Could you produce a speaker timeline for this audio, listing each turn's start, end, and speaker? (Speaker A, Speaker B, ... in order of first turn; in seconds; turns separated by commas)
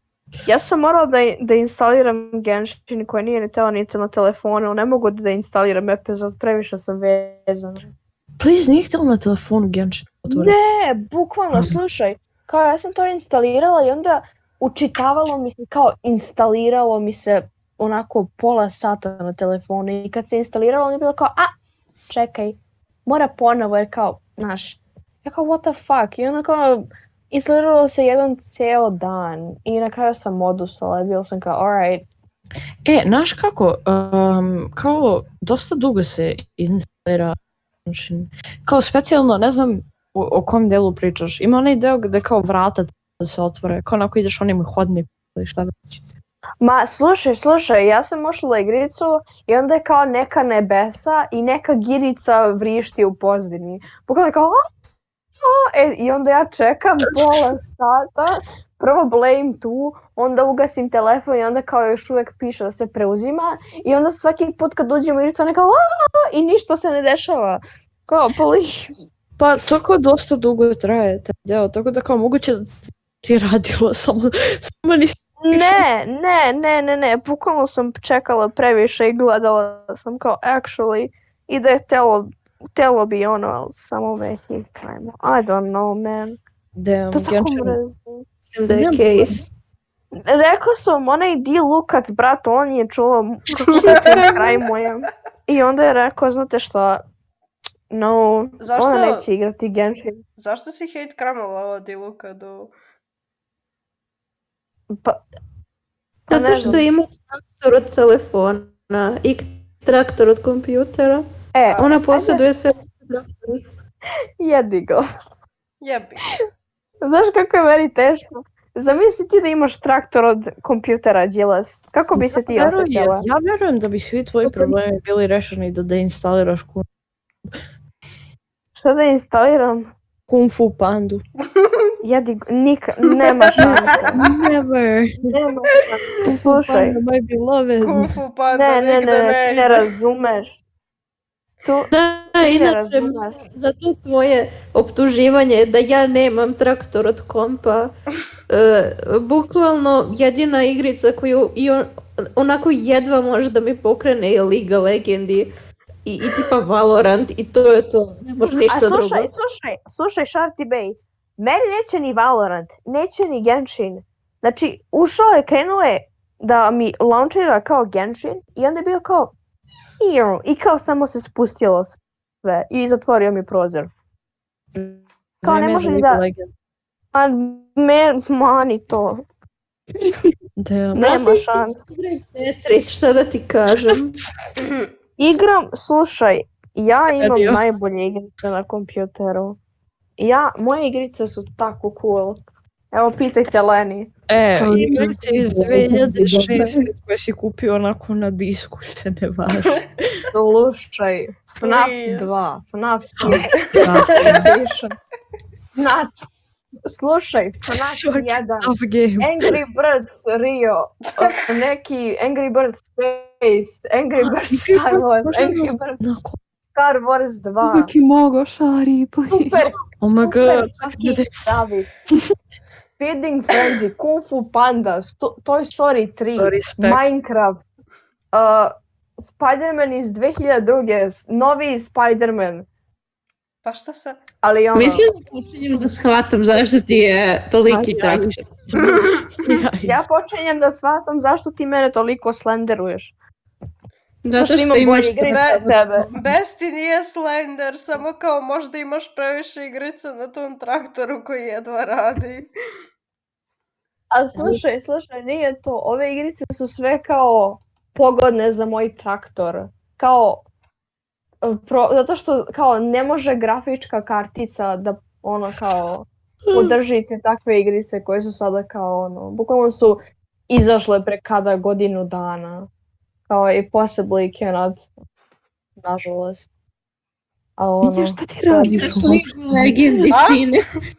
Speaker A: 0.5-7.9, Speaker B: 8.4-10.6, Speaker A: 10.3-21.5, Speaker B: 11.5-11.8, Speaker A: 22.1-32.1, Speaker B: 32.9-46.1, Speaker A: 46.6-54.6, Speaker A: 55.4-69.1, Speaker B: 69.4-75.9, Speaker A: 75.4-86.4, Speaker B: 86.8-87.8, Speaker A: 87.1-88.3, Speaker C: 88.5-89.5, Speaker B: 88.7-89.4, Speaker A: 90.2-97.0, Speaker D: 93.7-94.5, Speaker C: 93.9-94.3, Speaker A: 97.9-100.2, Speaker D: 98.6-99.2, Speaker D: 100.4-102.7, Speaker A: 104.9-105.2, Speaker C: 106.3-113.6, Speaker A: 106.3-106.9, Speaker A: 111.5-112.4, Speaker A: 114.4-115.0, Speaker D: 115.8-116.3, Speaker A: 117.0-123.2, Speaker B: 122.2-126.8, Speaker A: 128.8-129.9, Speaker B: 130.3-131.2, Speaker A: 132.0-134.2, Speaker D: 133.2-134.1, Speaker B: 133.6-135.4, Speaker A: 135.2-137.0, Speaker B: 136.2-138.2, Speaker D: 137.8-139.9, Speaker A: 138.5-140.6, Speaker A: 141.6-141.9, Speaker C: 141.9-147.9, Speaker A: 142.4-143.4, Speaker C: 148.5-155.5, Speaker C: 156.1-159.3, Speaker A: 158.7-169.3, Speaker A: 170.0-173.9, Speaker B: 174.7-176.5, Speaker A: 175.4-176.2, Speaker A: 177.1-179.2, Speaker B: 180.6-181.2, Speaker A: 180.9-181.8, Speaker C: 181.0-184.2, Speaker D: 184.6-184.9, Speaker A: 185.2-189.6, Speaker B: 187.2-187.6, Speaker A: 190.2-192.4, Speaker A: 192.9-194.1, Speaker B: 194.3-200.1, Speaker E: 194.6-196.7, Speaker A: 194.7-195.1, Speaker C: 195.7-196.4, Speaker A: 200.3-205.0, Speaker D: 201.6-202.4, Speaker B: 203.2-204.5, Speaker D: 203.7-204.5, Speaker A: 205.8-206.3, Speaker A: 206.8-216.0, Speaker B: 207.7-209.6, Speaker B: 214.5-216.4, Speaker A: 216.7-217.9, Speaker E: 217.6-219.6, Speaker A: 219.3-221.9, Speaker B: 219.9-221.6, Speaker A: 223.0-227.6, Speaker B: 226.4-227.0, Speaker A: 228.3-232.7, Speaker D: 233.6-234.2, Speaker A: 234.4-235.1, Speaker C: 234.8-238.5, Speaker B: 237.9-240.0, Speaker D: 238.8-239.5, Speaker A: 239.8-243.1, Speaker C: 244.2-246.1, Speaker A: 244.4-246.1, Speaker D: 245.3-252.5, Speaker A: 254.1-260.4, Speaker A: 261.4-272.7, Speaker A: 273.3-274.9, Speaker A: 275.8-276.5, Speaker A: 277.6-279.0, Speaker E: 277.8-280.0, Speaker C: 278.7-280.7, Speaker D: 280.1-280.6